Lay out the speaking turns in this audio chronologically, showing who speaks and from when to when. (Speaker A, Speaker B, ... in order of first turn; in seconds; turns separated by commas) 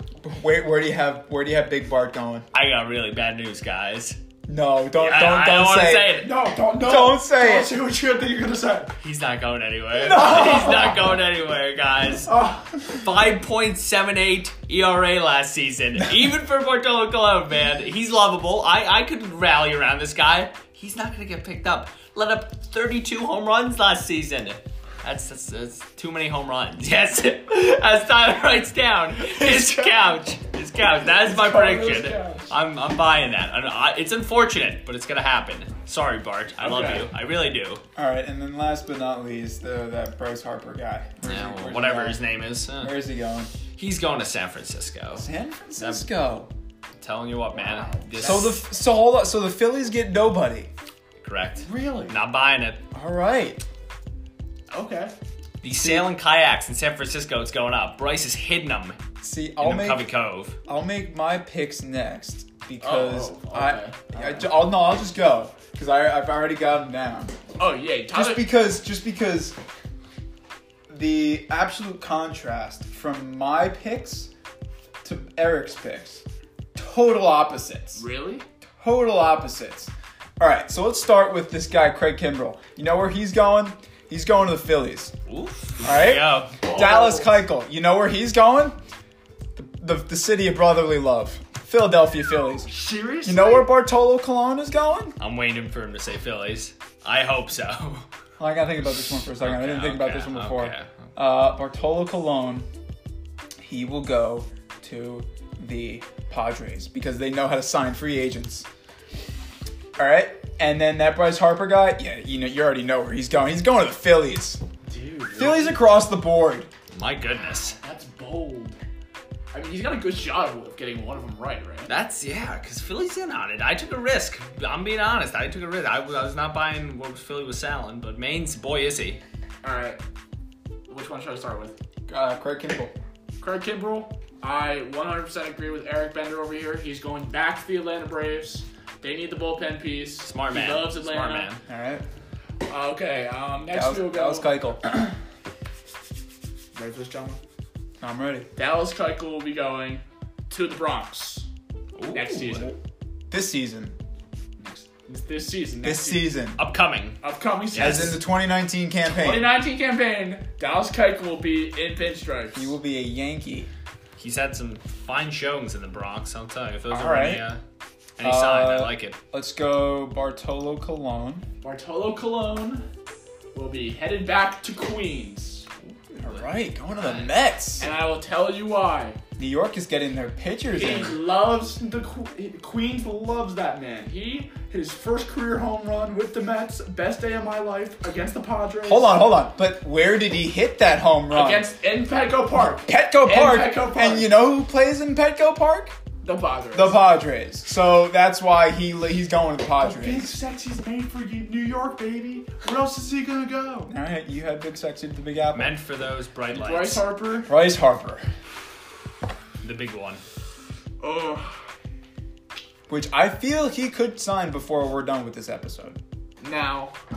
Speaker A: 0.2-2.5, Speaker B: 2.5-4.2, Speaker A: 4.5-7.8, Speaker B: 5.0-6.4, Speaker C: 6.1-8.9, Speaker B: 9.0-12.3, Speaker A: 9.9-11.0, Speaker C: 10.4-10.8, Speaker C: 12.2-12.8, Speaker B: 12.9-37.8, Speaker C: 29.2-30.2, Speaker C: 31.0-32.5, Speaker C: 36.6-37.1, Speaker A: 38.0-42.2, Speaker B: 41.2-43.0, Speaker A: 42.8-43.5, Speaker B: 43.7-46.0, Speaker A: 45.2-46.5, Speaker B: 47.0-48.6, Speaker C: 47.5-48.5, Speaker A: 48.2-50.7, Speaker B: 51.2-52.8, Speaker C: 51.6-52.2, Speaker A: 52.9-53.6, Speaker C: 54.7-55.1, Speaker B: 55.6-59.0, Speaker A: 55.7-56.1, Speaker A: 59.2-60.1, Speaker B: 59.6-60.5, Speaker A: 60.6-67.3, Speaker C: 62.8-64.6, Speaker C: 67.6-68.5, Speaker A: 68.1-69.5, Speaker A: 70.9-74.3, Speaker A: 75.0-76.2, Speaker A: 76.7-78.0, Speaker C: 77.9-78.5, Speaker A: 78.8-85.1, Speaker B: 85.2-86.6, Speaker A: 85.8-88.8, Speaker C: 86.6-87.4, Speaker A: 89.5-95.2, Speaker C: 92.7-93.7, Speaker B: 95.2-98.1, Speaker A: 98.4-102.7, Speaker B: 99.3-100.9, Speaker A: 103.6-108.7, Speaker A: 110.0-114.6, Speaker C: 114.9-115.8, Speaker A: 115.4-116.7, Speaker B: 116.9-117.8, Speaker C: 117.7-118.8, Speaker C: 119.5-121.9, Speaker B: 121.9-129.2, Speaker C: 129.6-130.0, Speaker C: 130.9-131.8, Speaker A: 132.1-132.9, Speaker C: 133.4-141.5, Speaker B: 140.2-141.6, Speaker A: 141.7-142.1, Speaker C: 142.7-144.6, Speaker A: 143.7-144.9, Speaker C: 146.7-147.4, Speaker A: 148.0-148.5, Speaker C: 148.6-151.5, Speaker B: 151.9-152.6, Speaker C: 152.1-152.7, Speaker A: 153.3-153.9, Speaker C: 154.6-156.3, Speaker A: 155.8-156.6, Speaker B: 156.6-157.2, Speaker C: 157.2-158.2, Speaker B: 157.7-158.2, Speaker A: 157.8-159.6, Speaker C: 159.1-162.7, Speaker A: 162.5-163.7, Speaker B: 164.2-167.6, Speaker A: 166.9-167.4, Speaker B: 168.2-169.2, Speaker A: 168.2-171.4, Speaker C: 171.6-172.9, Speaker C: 173.5-175.7, Speaker B: 176.1-177.3, Speaker A: 176.1-177.9, Speaker C: 177.8-179.2, Speaker A: 179.4-181.2, Speaker C: 180.7-189.3, Speaker A: 188.8-191.7, Speaker C: 191.3-194.4, Speaker A: 192.8-196.0, Speaker C: 196.2-197.0, Speaker A: 196.7-200.3, Speaker C: 199.8-203.9, Speaker A: 203.9-205.8, Speaker B: 205.5-207.1, Speaker C: 206.5-207.5, Speaker A: 207.4-208.3, Speaker B: 209.6-210.2, Speaker C: 211.0-211.6, Speaker A: 212.9-216.0, Speaker C: 216.4-216.9